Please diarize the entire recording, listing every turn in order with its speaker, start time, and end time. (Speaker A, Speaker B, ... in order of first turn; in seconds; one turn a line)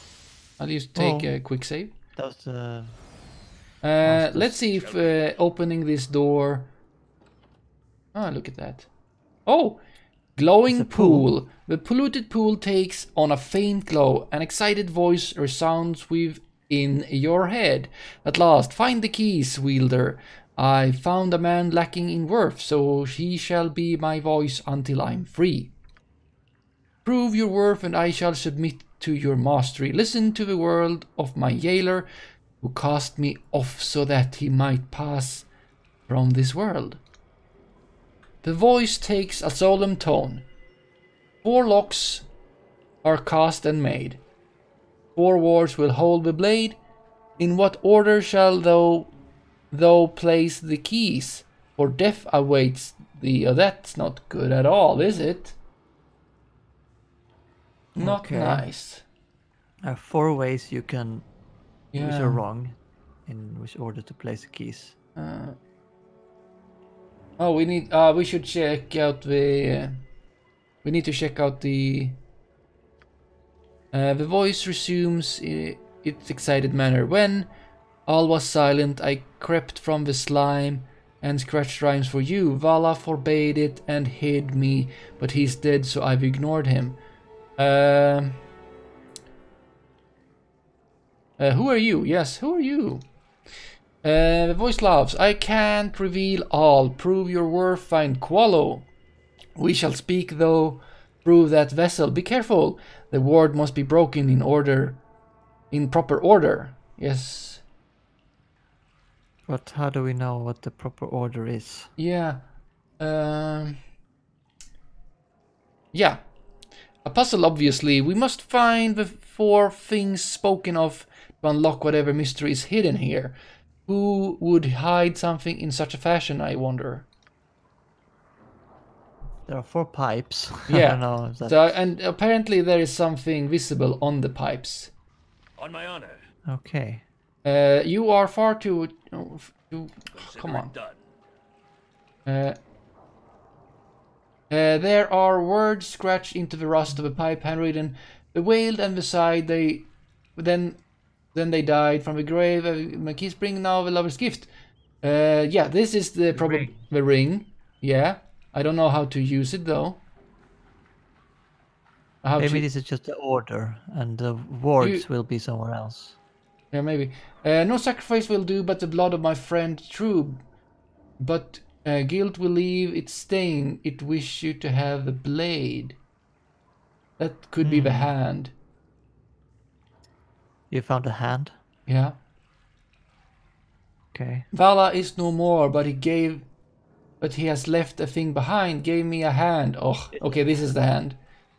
Speaker A: 0.6-1.9
Speaker B: 0.9-1.3
Speaker B: 2.1-3.0
Speaker A: 3.8-6.7
Speaker B: 4.0-4.6
Speaker C: 4.8-5.2
Speaker A: 8.1-8.9
Speaker A: 9.4-9.8
Speaker A: 10.3-25.7
Speaker B: 10.7-11.3
Speaker A: 27.0-32.1
Speaker A: 32.6-35.5
Speaker A: 36.1-37.0
Speaker A: 38.4-40.4
Speaker A: 41.4-42.2
Speaker A: 43.0-44.2
Speaker A: 45.1-46.8
Speaker A: 47.4-49.1
Speaker A: 49.7-55.5
Speaker B: 57.9-58.6
Speaker A: 57.9-59.0
Speaker B: 59.8-61.2
Speaker A: 61.9-62.4
Speaker B: 61.9-64.9
Speaker A: 65.2-65.6
Speaker A: 67.4-70.0
Speaker A: 70.8-72.2
Speaker A: 73.9-77.5
Speaker A: 78.1-87.0
Speaker A: 87.6-88.4
Speaker A: 91.4-93.0
Speaker A: 94.0-98.9
Speaker A: 99.6-105.0
Speaker A: 105.7-107.6
Speaker B: 109.5-111.9
Speaker A: 112.0-112.4
Speaker A: 113.0-113.8
Speaker A: 115.9-116.2
Speaker A: 117.0-127.1
Speaker B: 129.5-131.7
Speaker A: 130.7-134.9
Speaker C: 135.6-136.2
Speaker B: 136.5-137.0
Speaker A: 137.4-140.7
Speaker C: 140.1-141.1
Speaker A: 142.2-142.6
Speaker A: 144.5-150.8
Speaker A: 151.3-154.5
Speaker A: 155.0-160.0
Speaker B: 156.3-156.8
Speaker A: 162.2-162.7
Speaker B: 162.4-166.2
Speaker A: 164.8-165.0
Speaker A: 166.7-170.4
Speaker A: 171.2-176.0
Speaker A: 177.2-178.5
Speaker B: 177.6-178.1
Speaker B: 180.7-181.5
Speaker A: 181.9-182.2
Speaker B: 184.1-184.5
Speaker A: 184.5-186.4
Speaker A: 187.2-191.2
Speaker B: 190.1-190.6